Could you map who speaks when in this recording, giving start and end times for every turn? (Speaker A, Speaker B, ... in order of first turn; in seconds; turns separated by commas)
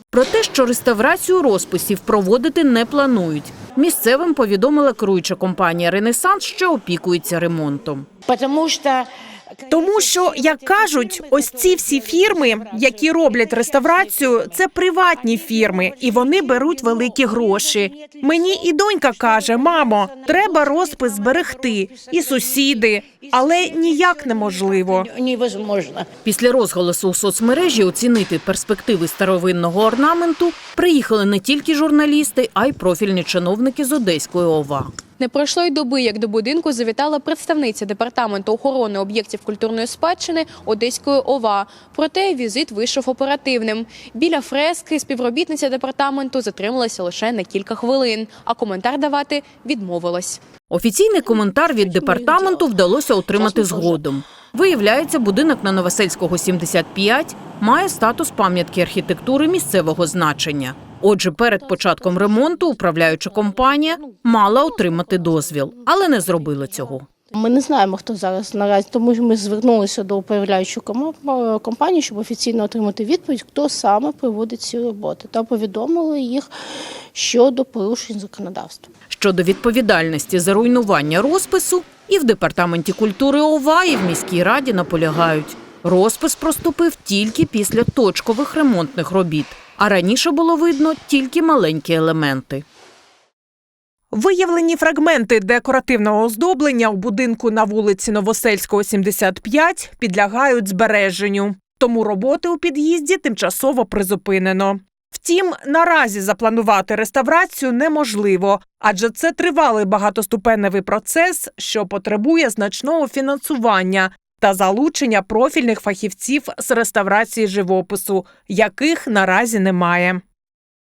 Speaker A: 0.1-8.1, Speaker B: 8.3-9.1, Speaker C: 9.7-25.1, Speaker B: 9.7-26.1, Speaker A: 26.2-34.9, Speaker D: 35.2-50.4, Speaker A: 50.7-67.1, Speaker E: 67.3-76.5, Speaker E: 77.1-78.9, Speaker A: 79.1-92.6, Speaker C: 94.1-120.2